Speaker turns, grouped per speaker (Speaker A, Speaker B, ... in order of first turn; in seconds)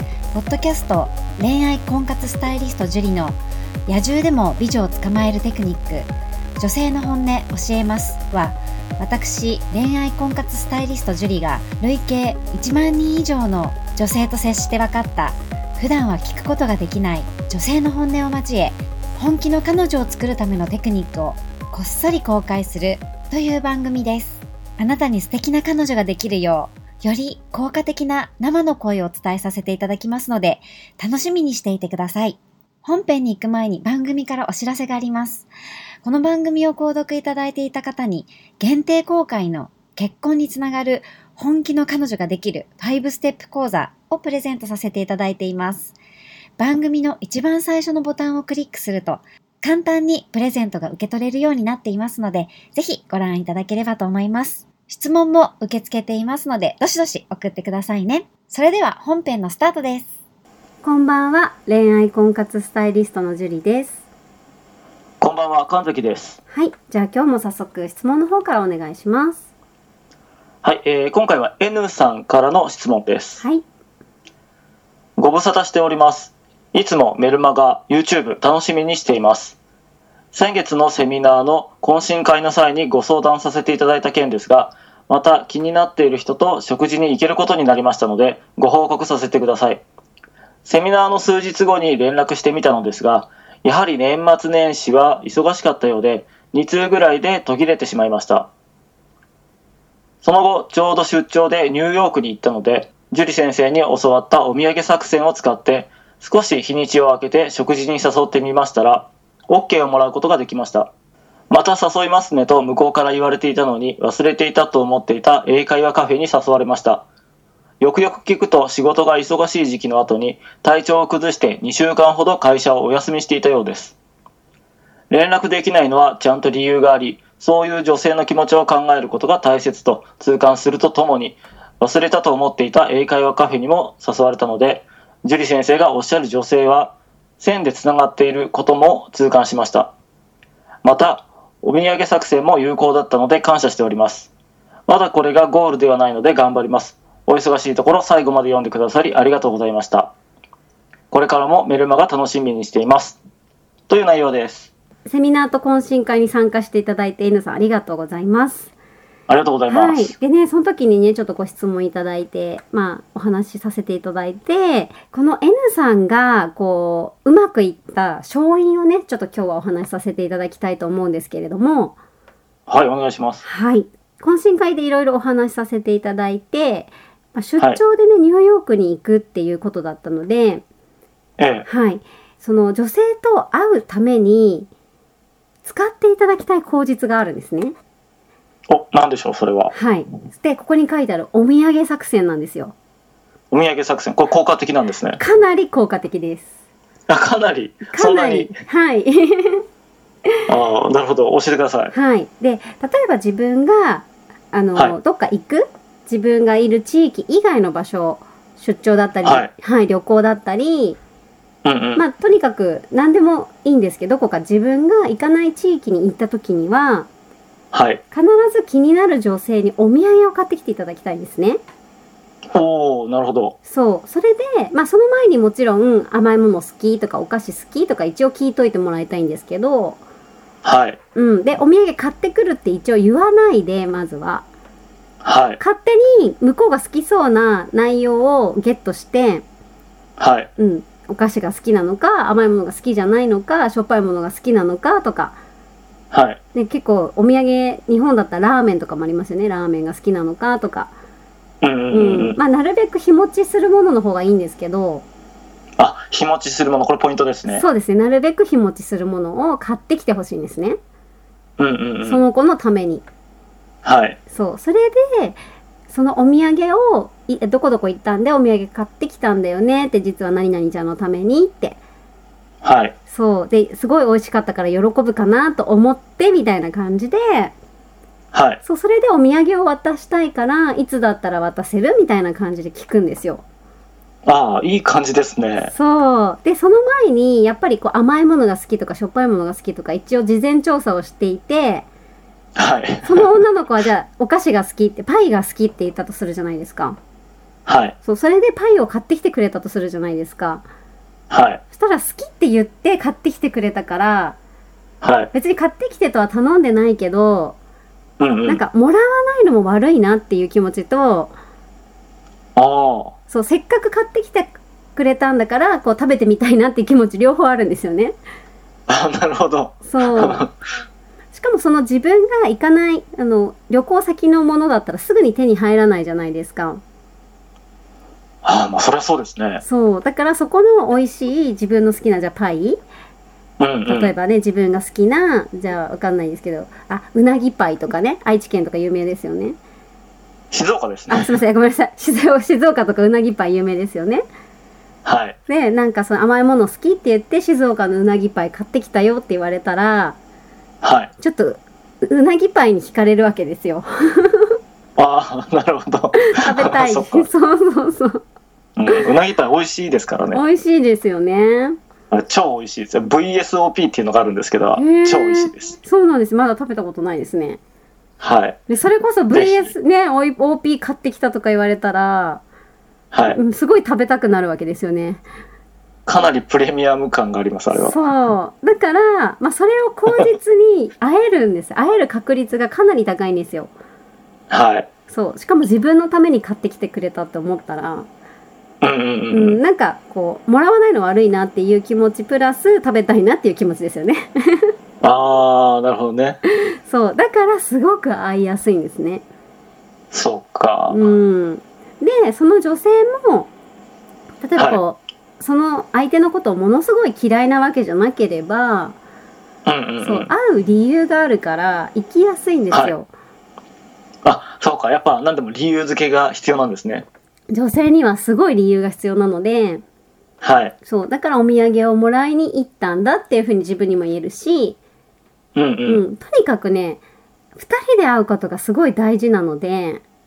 Speaker A: 0.3-35.5, 36.0-46.0, 46.6-60.1
Speaker B: 60.8-64.0, 66.5-69.4, 155.1-158.7, 159.7-171.9, 173.4-180.6, 181.7-184.7, 185.7-187.8, 189.7-192.8, 195.2-196.5, 197.9-199.6, 201.9-211.0, 212.0-217.1, 218.1-221.6, 223.7-230.0, 231.2-234.5, 235.6-239.4, 240.6-245.4, 246.5-250.9, 251.9-255.1, 257.5-260.8, 262.0-263.1, 264.3-265.4, 265.9-271.8, 273.1-277.5, 278.6-283.4, 285.7-291.9, 293.1-297.0, 298.0-300.6, 301.7-304.4, 305.3-307.6, 308.5-311.4, 313.3-318.2, 319.9-320.4, 321.3-326.8, 329.6-332.8, 333.9-339.6, 341.1-344.2, 345.5-350.2, 351.2-354.6, 356.2-358.2, 360.3-361.8, 364.8-367.6, 368.7-372.4, 373.3-375.2, 377.7-383.7, 385.1-388.1, 389.3-394.7, 396.9-399.2, 400.9-403.5, 404.4-409.0, 410.0-413.1, 417.5-419.8, 420.8-424.8, 425.9-427.0, 427.6-430.0
Speaker C: 65.2-66.4, 70.6-73.4, 75.2-79.6, 80.3-89.8, 90.7-98.5, 100.2-110.9, 111.5-117.0, 117.8-124.0, 125.1-139.9, 140.8-144.3, 144.9-150.1, 151.1-153.2, 153.9-154.7, 159.3-160.1, 172.7-173.4, 181.4-181.7, 188.7-189.7, 193.5-195.2, 197.1-198.5, 200.5-201.9, 209.2-209.5, 211.7-212.0, 217.7-218.0, 222.5-223.6, 230.6-231.0, 235.2-235.6, 240.2-240.5, 246.1-246.4, 251.6-252.4, 255.8-257.6, 261.6-262.2, 263.8-264.2, 272.6-272.9, 278.3-278.6, 284.3-285.7, 292.6-293.3, 297.7-297.9, 301.3-301.6, 305.0-305.3, 308.2-308.6, 312.6-313.1, 318.9-320.5, 328.4-329.6, 333.6-334.1, 340.5-341.4, 345.1-345.4, 350.8-351.1, 355.0-357.3, 358.8-360.4, 362.1-365.8, 368.2-368.6, 369.3-369.7, 373.1-373.4, 376.1-378.0, 384.5-384.9, 388.8-389.6, 395.0-396.4, 400.1-401.0, 404.6-404.8, 409.6-410.3, 414.2-417.1, 420.4-420.7, 425.6-426.0